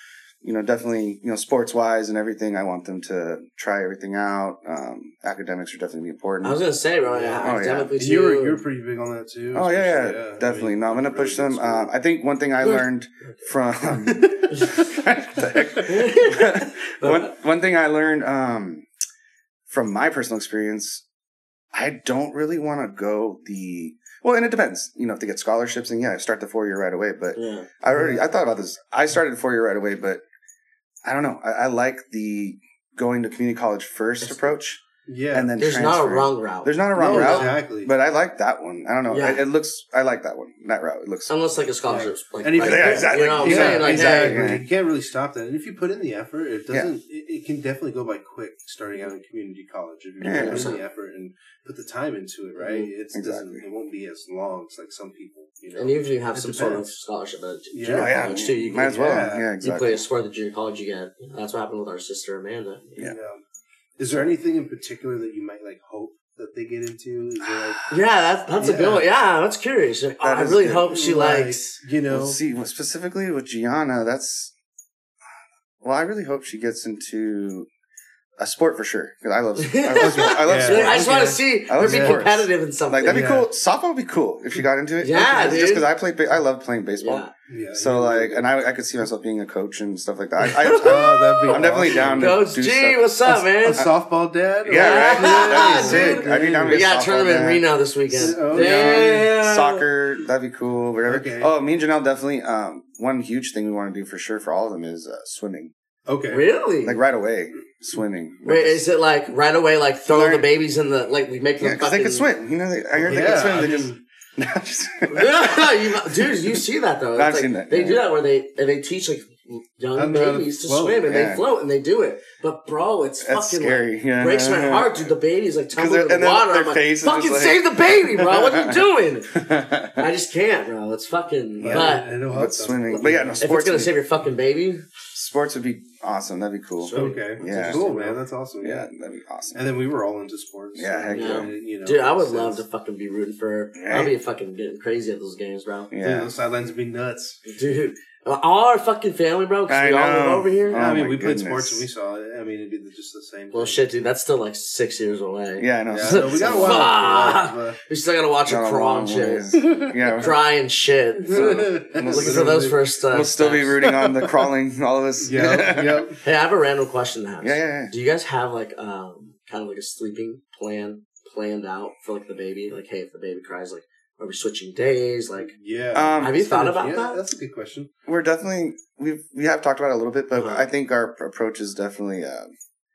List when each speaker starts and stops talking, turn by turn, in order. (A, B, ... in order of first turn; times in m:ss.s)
0:00.4-0:06.6 A
0:06.4-0:08.6 B
0:07.0-0:11.9 C
0:07.4-0:07.9 A
0:09.5-0:18.9 A
0:14.0-0:14.7 C
0:15.8-0:17.3 B
0:19.7-0:21.0 A
0:21.7-0:30.2 A
0:27.4-0:27.7 B
0:27.9-0:28.2 C
0:31.0-0:34.8 A
0:34.2-0:34.6 B
0:35.0-0:35.5 C
0:35.3-0:41.3 A
0:35.6-0:37.6 B
0:36.9-0:37.9 C
0:39.1-0:39.4 B
0:41.3-0:44.5 B
0:41.9-0:56.8 C
0:42.6-0:44.6 A
0:50.2-0:50.7 A
0:50.3-0:50.8 B
0:52.6-0:52.9 B
0:53.1-0:53.6 A
0:55.7-1:03.0 B
0:57.7-0:59.5 C
0:57.9-1:00.0 A
1:03.0-1:03.4 C
1:04.0-1:08.0 C
1:07.9-1:11.8 B
1:08.6-1:09.0 C
1:10.2-1:10.9 A
1:10.9-1:12.4 C
1:12.1-1:14.5 A
1:15.8-1:17.7 A
1:18.4-1:33.9 A
1:19.6-1:23.3 B
1:20.0-1:22.2 C
1:23.1-1:23.5 C
1:25.0-1:25.9 B
1:25.3-1:25.6 C
1:27.0-1:27.3 B
1:27.5-1:28.5 C
1:30.4-1:33.9 B
1:30.7-1:32.4 C
1:33.6-1:36.9 C
1:34.6-1:37.6 A
1:34.7-1:39.8 B
1:38.1-1:39.3 C
1:38.5-1:45.7 A
1:41.0-1:41.5 C
1:46.1-1:46.5 C
1:46.3-1:47.0 B
1:46.8-1:48.8 A
1:48.4-1:52.3 B
1:50.1-1:50.5 A
1:51.6-1:56.6 A
1:53.0-1:54.0 C
1:55.1-2:12.1 B
1:57.1-1:58.0 A
1:59.9-2:01.1 C
2:01.1-2:01.4 A
2:03.2-2:05.1 A
2:05.7-2:10.1 A
2:11.6-2:13.4 C
2:11.6-2:13.9 A
2:12.9-2:14.8 B
2:15.1-2:17.9 A
2:16.8-2:18.2 B
2:16.9-2:18.9 C
2:18.6-2:19.6 A
2:19.5-2:22.6 C
2:20.7-2:21.5 A
2:21.1-2:25.9 B
2:23.8-2:24.1 A
2:25.9-2:26.3 A
2:26.0-2:27.4 C
2:27.4-2:30.8 B
2:29.7-2:31.8 A
2:30.7-2:33.8 C
2:33.5-2:43.8 B
2:35.6-2:36.8 A
2:35.9-2:37.8 C
2:38.4-2:40.4 A
2:39.6-2:40.2 C
2:41.2-2:42.8 C
2:41.3-2:46.1 A
2:43.8-2:44.5 C
2:45.2-2:46.2 C
2:46.2-2:55.5 B
2:47.4-2:47.9 A
2:55.4-2:57.9 C
2:55.9-2:56.5 A
2:56.1-2:57.2 B
2:58.1-3:02.5 A
3:00.3-3:00.7 B